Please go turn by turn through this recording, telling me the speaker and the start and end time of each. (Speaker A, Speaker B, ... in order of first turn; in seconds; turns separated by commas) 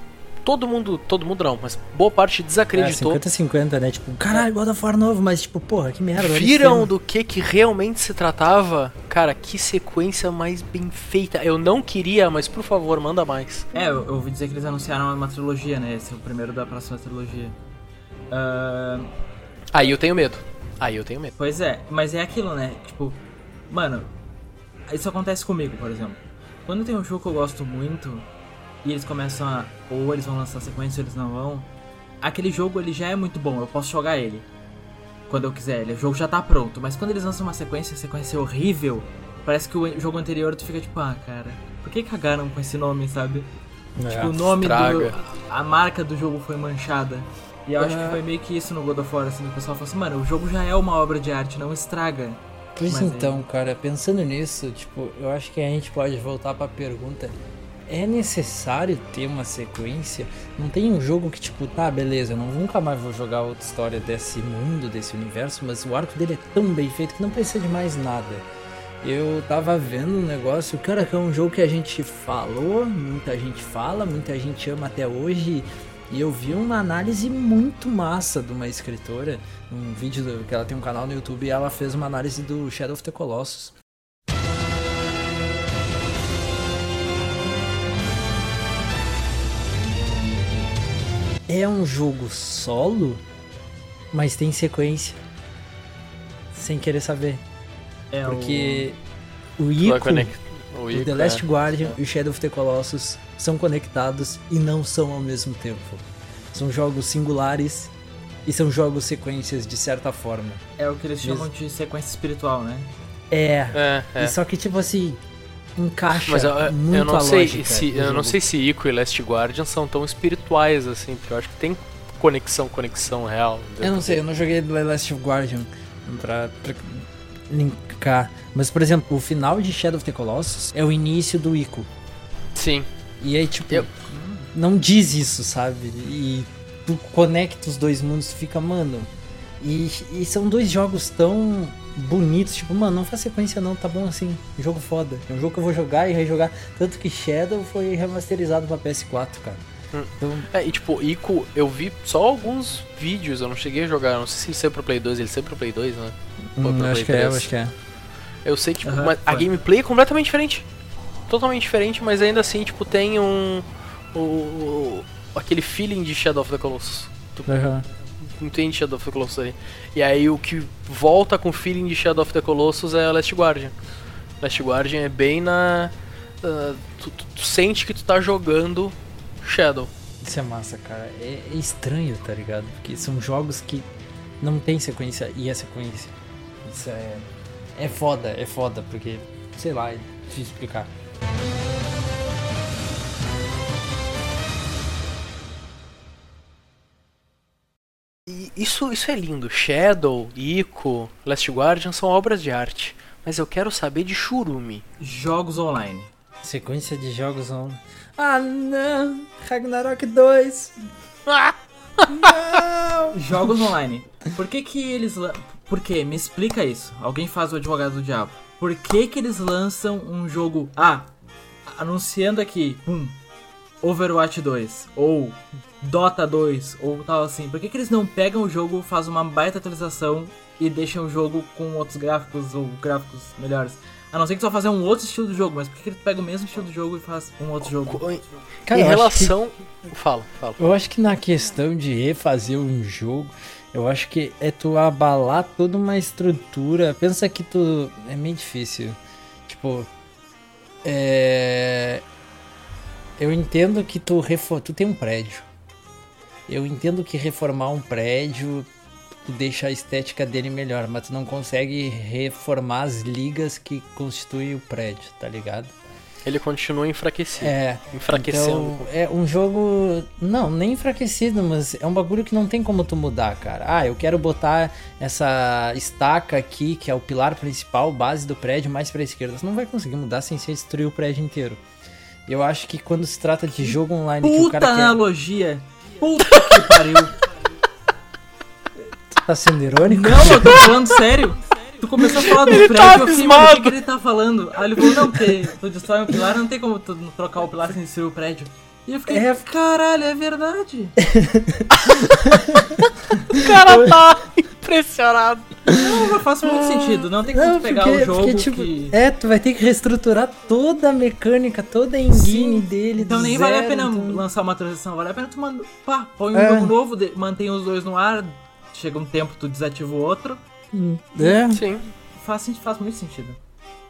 Speaker A: 0.5-3.2, Speaker B: 2.7-6.9, Speaker A: 6.2-13.7, Speaker C: 13.7-17.6, Speaker C: 18.3-19.1, Speaker A: 19.7-21.3, Speaker C: 21.4-24.1, Speaker C: 24.9-28.3, Speaker C: 28.8-31.7, Speaker C: 32.2-34.5, Speaker C: 35.3-43.5, Speaker B: 44.0-44.4, Speaker C: 44.1-53.4, Speaker A: 44.6-45.2, Speaker A: 47.8-48.2, Speaker B: 52.8-57.4, Speaker B: 57.9-68.5, Speaker B: 69.0-83.8, Speaker B: 91.5-93.2, Speaker B: 94.1-95.2, Speaker B: 96.5-97.4, Speaker C: 98.1-98.9, Speaker B: 98.2-99.0, Speaker B: 99.6-100.3, Speaker A: 99.8-101.5, Speaker B: 100.9-107.9, Speaker B: 108.5-110.6, Speaker C: 110.8-112.9, Speaker B: 111.2-111.5, Speaker B: 113.3-115.2, Speaker A: 113.7-114.3, Speaker B: 115.8-118.4, Speaker A: 116.3-124.2, Speaker B: 123.8-131.9, Speaker A: 132.6-132.9, Speaker B: 133.2-133.9, Speaker C: 134.1-134.5, Speaker B: 134.5-149.6, Speaker A: 149.9-157.5, Speaker B: 150.2-150.5, Speaker B: 156.6-157.7, Speaker A: 158.4-160.7, Speaker C: 158.8-159.5, Speaker A: 161.3-167.6, Speaker B: 167.5-167.8, Speaker A: 168.2-173.7, Speaker A: 174.4-179.9, Speaker B: 180.2-183.9, Speaker B: 184.4-190.9, Speaker A: 198.3-204.8, Speaker C: 205.0-206.1, Speaker B: 206.4-210.8, Speaker A: 211.3-211.5, Speaker B: 212.1-213.2, Speaker C: 213.1-221.1, Speaker C: 221.7-223.2, Speaker C: 223.8-238.0, Speaker A: 237.6-240.6, Speaker B: 238.7-239.3, Speaker B: 240.6-249.9, Speaker B: 250.8-252.0, Speaker B: 253.2-255.5, Speaker B: 256.5-258.7, Speaker B: 259.2-265.7, Speaker A: 266.2-268.9, Speaker B: 267.4-281.6, Speaker B: 282.3-285.0, Speaker C: 284.2-287.1, Speaker B: 289.1-290.7, Speaker C: 289.9-301.0, Speaker A: 292.3-293.8, Speaker B: 299.1-299.5, Speaker B: 301.0-302.8, Speaker A: 301.8-302.1, Speaker A: 303.4-305.7, Speaker B: 303.4-303.9, Speaker B: 305.7-305.9, Speaker C: 305.7-308.9, Speaker B: 307.3-314.2, Speaker C: 312.1-320.4, Speaker B: 316.3-316.7, Speaker B: 320.7-321.6, Speaker A: 321.5-321.8, Speaker C: 322.1-323.4